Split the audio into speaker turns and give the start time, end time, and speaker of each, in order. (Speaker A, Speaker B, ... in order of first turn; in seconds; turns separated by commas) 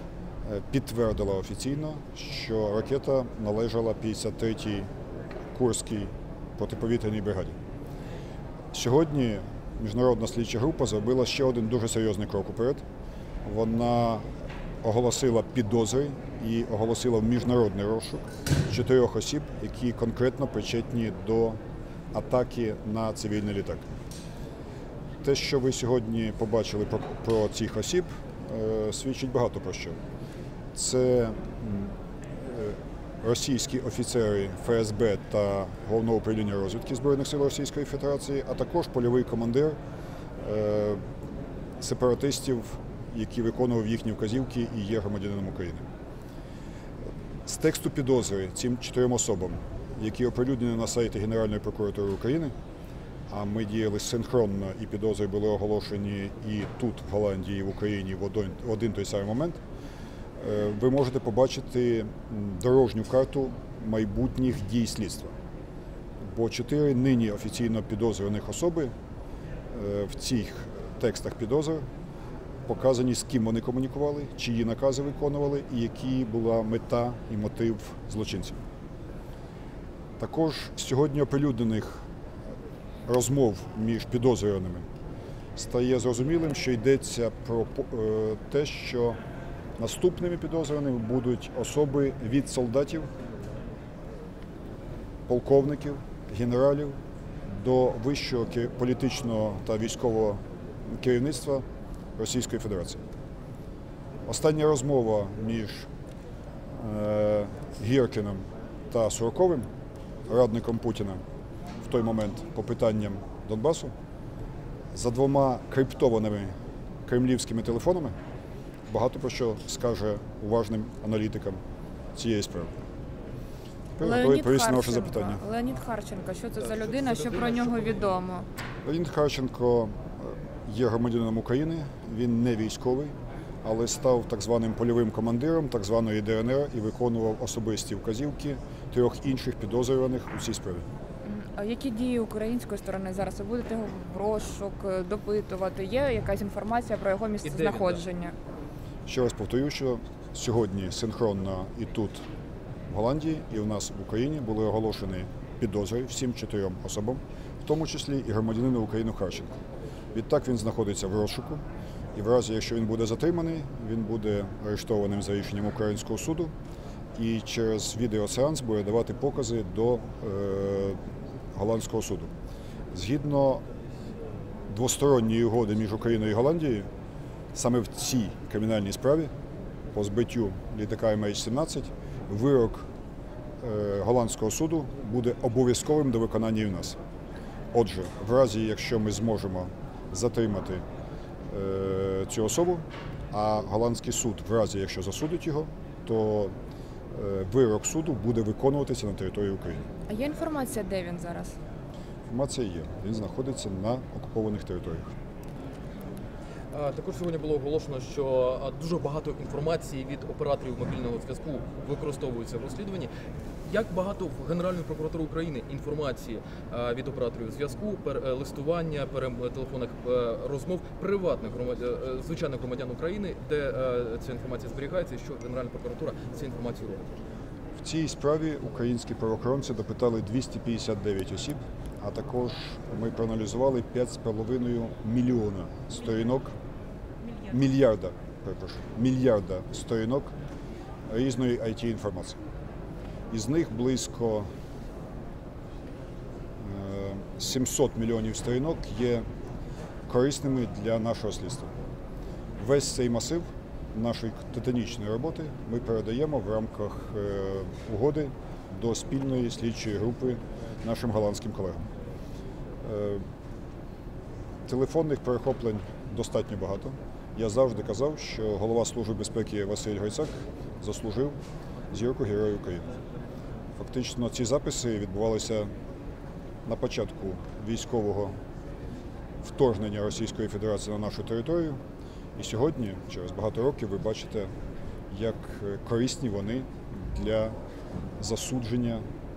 Speaker A: 0.4-4.9, Speaker A: 5.5-7.6, Speaker A: 8.7-12.8, Speaker A: 13.4-14.2, Speaker A: 14.8-21.6, Speaker A: 22.1-23.8, Speaker A: 25.2-30.0, Speaker A: 30.7-39.8, Speaker A: 40.4-41.0, Speaker A: 41.8-45.8, Speaker A: 47.5-52.5, Speaker A: 53.3-59.6, Speaker A: 60.4-65.3, Speaker A: 66.2-68.9, Speaker A: 69.7-71.8, Speaker A: 72.7-78.6, Speaker A: 80.2-82.0, Speaker A: 83.1-84.9, Speaker A: 85.5-89.2, Speaker A: 89.8-93.1, Speaker A: 95.3-97.0, Speaker A: 97.5-100.4, Speaker A: 100.9-101.6, Speaker A: 102.2-103.0, Speaker A: 104.2-105.9, Speaker A: 106.7-109.7, Speaker A: 110.3-111.2, Speaker A: 111.8-113.9, Speaker A: 114.9-116.5, Speaker A: 117.0-118.1, Speaker A: 118.9-121.6, Speaker A: 122.1-122.8, Speaker A: 124.0-125.4, Speaker B: 124.0-128.5, Speaker C: 126.6-128.0, Speaker A: 128.8-140.8, Speaker B: 141.2-148.3, Speaker C: 147.4-148.0, Speaker A: 149.1-152.2, Speaker A: 152.9-159.5, Speaker A: 160.1-161.6, Speaker A: 162.1-166.5, Speaker A: 167.2-171.0, Speaker A: 171.5-172.3, Speaker A: 172.9-173.6, Speaker A: 174.7-176.9, Speaker A: 177.5-179.3, Speaker A: 179.9-182.9, Speaker A: 183.6-187.0, Speaker A: 187.7-190.8, Speaker A: 191.5-196.5, Speaker A: 197.1-199.8, Speaker B: 200.1-201.6, Speaker A: 202.3-205.1, Speaker C: 206.7-213.1, Speaker C: 213.6-227.0, Speaker A: 227.8-236.5, Speaker A: 237.4-240.3, Speaker A: 241.1-242.4, Speaker A: 243.3-244.5, Speaker A: 246.6-249.2, Speaker A: 250.1-251.7, Speaker A: 252.6-261.9, Speaker A: 262.8-263.2, Speaker A: 264.7-271.4, Speaker A: 271.9-272.9, Speaker A: 273.8-275.7, Speaker A: 276.6-278.4, Speaker A: 279.4-281.8, Speaker A: 282.4-284.5, Speaker A: 285.1-287.6, Speaker A: 288.2-289.0